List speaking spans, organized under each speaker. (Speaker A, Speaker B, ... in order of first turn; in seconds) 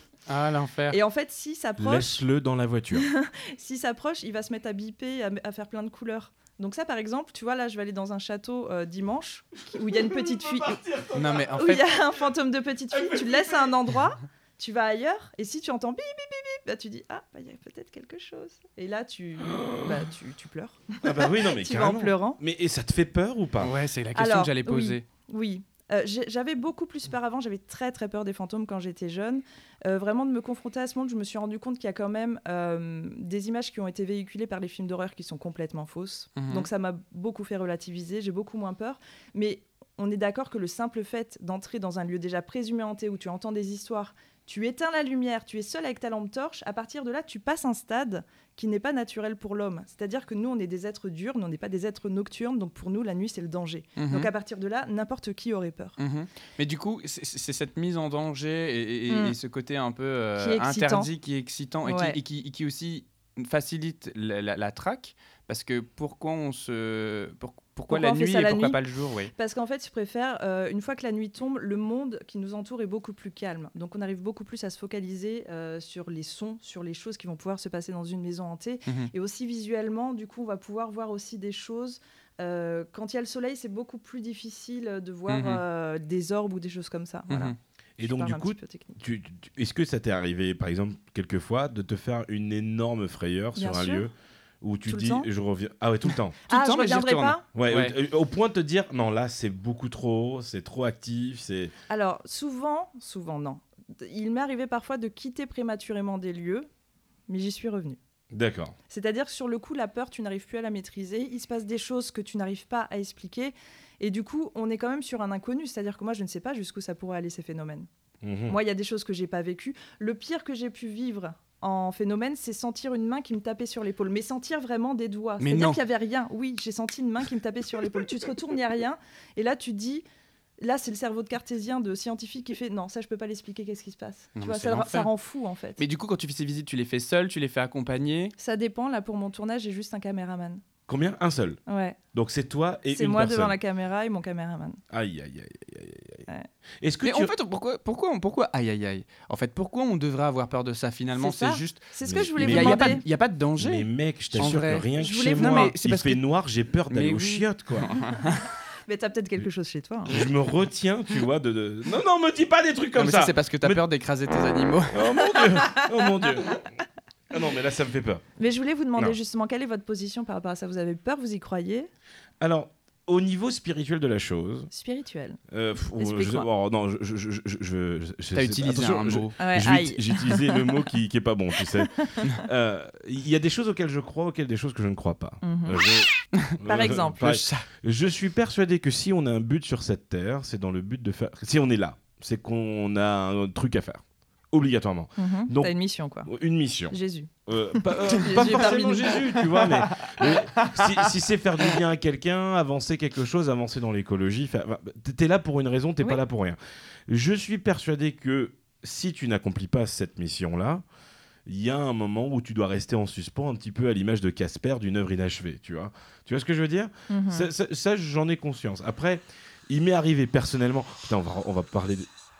Speaker A: 0.3-1.0, 11.1-12.0, 23.6-25.0, 36.4-36.7, 54.0-54.3, 56.0-69.3, 78.9-79.1, 85.3-85.6, 87.3-87.5, 96.5-98.0, 125.4-125.8, 134.3-135.1, 135.8-138.3, 147.0-156.2, 156.9-158.4, 162.9-165.1, 178.3-179.3, 187.2-187.6, 198.3-198.7, 199.2-201.1
Speaker B: 0.9-2.2, 2.9-10.8, 11.5-22.4, 24.1-56.0, 59.1-59.3, 60.4-61.1, 61.8-62.2, 67.9-68.8, 69.3-89.0, 93.6-94.1, 94.9-95.3, 96.5-97.4, 101.9-106.7, 107.3-108.0, 108.9-117.9, 118.5-130.0, 130.6-135.8, 138.4-140.6, 141.7-142.0, 142.9-144.8, 151.2-153.0, 154.4-155.7, 158.8-160.2, 165.2-165.9, 168.4-171.9, 174.7-175.4, 176.0-176.5, 179.4-180.6, 181.8-182.3, 185.4-185.9, 186.6-187.4, 195.2-196.3, 196.9-199.3, 217.1-217.5
Speaker C: 1.8-3.1, 9.8-11.5, 12.9-13.4, 19.5-19.9, 21.0-23.7, 88.0-96.4, 97.5-101.7, 108.3-108.8, 118.2-118.5, 140.9-141.6, 142.1-143.5, 144.9-146.2, 146.8-147.3, 152.0-153.0, 153.6-157.9, 160.1-163.8, 164.9-166.6, 167.3-168.2, 172.4-174.7, 175.5-195.7, 196.2-210.8, 211.4-222.1